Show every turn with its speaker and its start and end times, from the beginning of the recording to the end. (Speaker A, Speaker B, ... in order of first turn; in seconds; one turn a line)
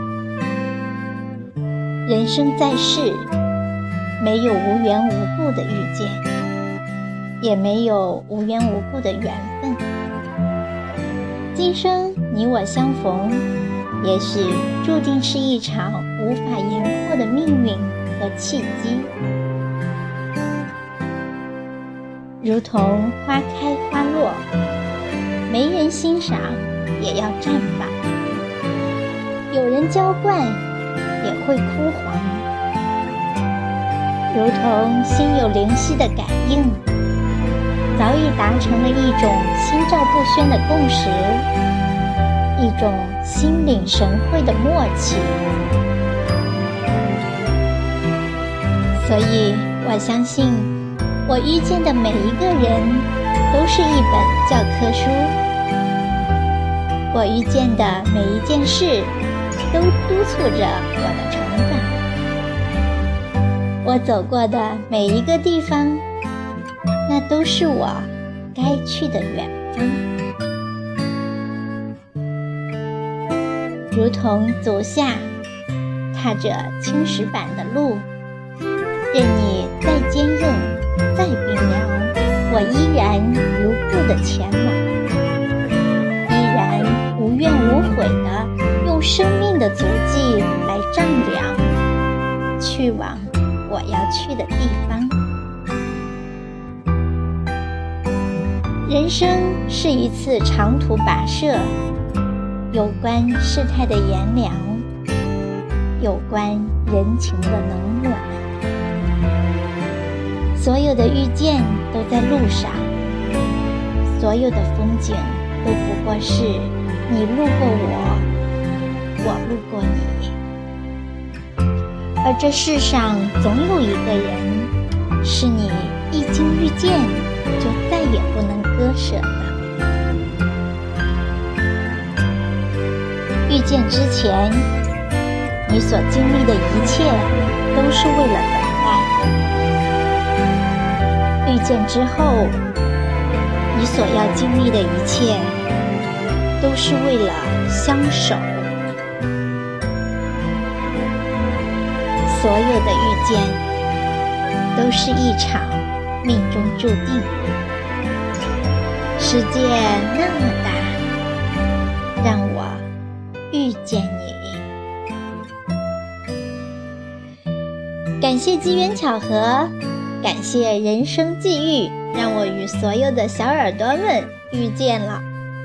Speaker A: 2.1-3.3
Speaker A: 4.2-6.2
Speaker A: 7.4-9.8
Speaker A: 11.5-13.5
Speaker A: 14.0-19.1
Speaker A: 22.4-24.4
Speaker A: 25.5-28.0
Speaker A: 29.5-30.6
Speaker A: 31.2-32.5
Speaker A: 34.3-36.8
Speaker A: 38.0-41.5
Speaker A: 42.6-45.5
Speaker A: 49.0-50.7
Speaker A: 51.3-55.4
Speaker A: 57.1-59.1
Speaker A: 59.7-62.0
Speaker A: 63.8-66.0
Speaker A: 67.1-70.1
Speaker A: 73.9-75.3
Speaker A: 76.1-78.1
Speaker A: 79.1-84.9
Speaker A: 86.3-91.6
Speaker A: 92.6-95.2
Speaker A: 98.9-101.7
Speaker A: 102.7-104.9
Speaker A: 106.0-108.5
Speaker A: 110.5-112.9
Speaker A: 114.1-118.3
Speaker A: 119.2-120.4
Speaker A: 122.2-129.5
Speaker A: 133.5-134.7
Speaker A: 135.7-139.1
Speaker A: 141.4-142.6
Speaker A: 143.7-145.6
Speaker A: 146.6-148.7
Speaker A: 152.2-153.6
Speaker A: 154.8-157.3
Speaker A: 159.2-161.0
Speaker A: 162.2-162.9
Speaker A: 163.5-164.6
Speaker A: 168.2-175.3